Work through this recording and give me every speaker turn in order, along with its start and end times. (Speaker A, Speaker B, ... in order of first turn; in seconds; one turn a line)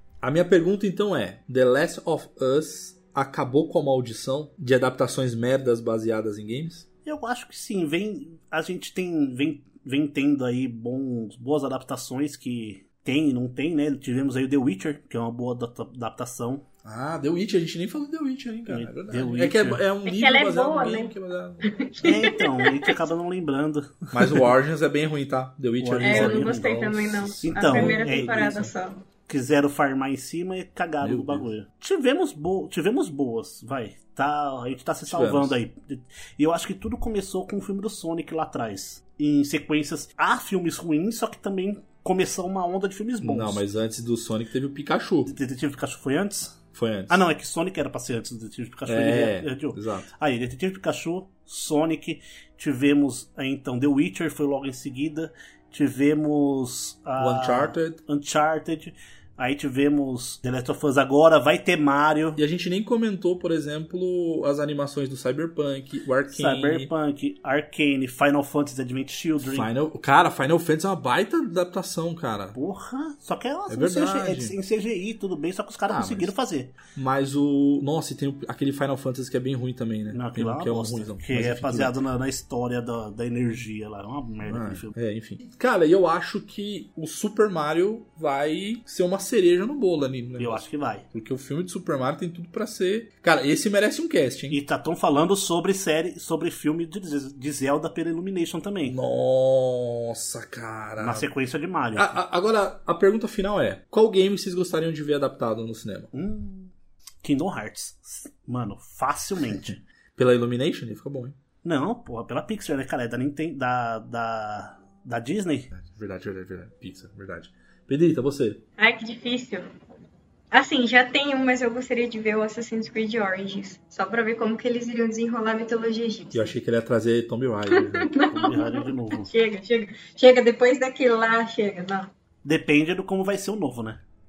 Speaker A: 0.2-6.9
Speaker B: 7.0-16.6
Speaker A: 16.8-21.7
Speaker B: 18.7-19.8
Speaker C: 20.1-21.1
Speaker C: 21.6-22.9
Speaker B: 22.0-24.5
Speaker A: 24.1-28.7
Speaker B: 25.8-28.7
Speaker C: 26.0-29.0
Speaker B: 29.3-43.6
Speaker A: 31.0-31.5
Speaker A: 35.1-35.6
Speaker A: 43.2-45.4
Speaker B: 45.2-62.4
Speaker A: 46.7-47.2
Speaker A: 48.9-50.1
Speaker A: 57.2-58.0
Speaker A: 62.4-66.9
Speaker B: 66.3-69.7
Speaker A: 69.4-72.6
Speaker B: 72.5-76.7
Speaker A: 73.7-74.5
Speaker A: 75.9-76.3
Speaker A: 77.0-82.0
Speaker B: 80.1-84.9
Speaker A: 84.5-94.6
Speaker B: 90.4-91.0
Speaker B: 94.5-99.0
Speaker A: 98.8-101.3
Speaker B: 101.0-102.2
Speaker A: 102.0-106.1
Speaker B: 106.1-109.8
Speaker A: 109.6-111.4
Speaker B: 111.6-115.7
Speaker A: 115.7-118.6
Speaker C: 118.8-119.7
Speaker C: 120.5-126.5
Speaker A: 126.3-128.1
Speaker C: 127.7-132.1
Speaker B: 128.1-129.3
Speaker B: 132.4-134.0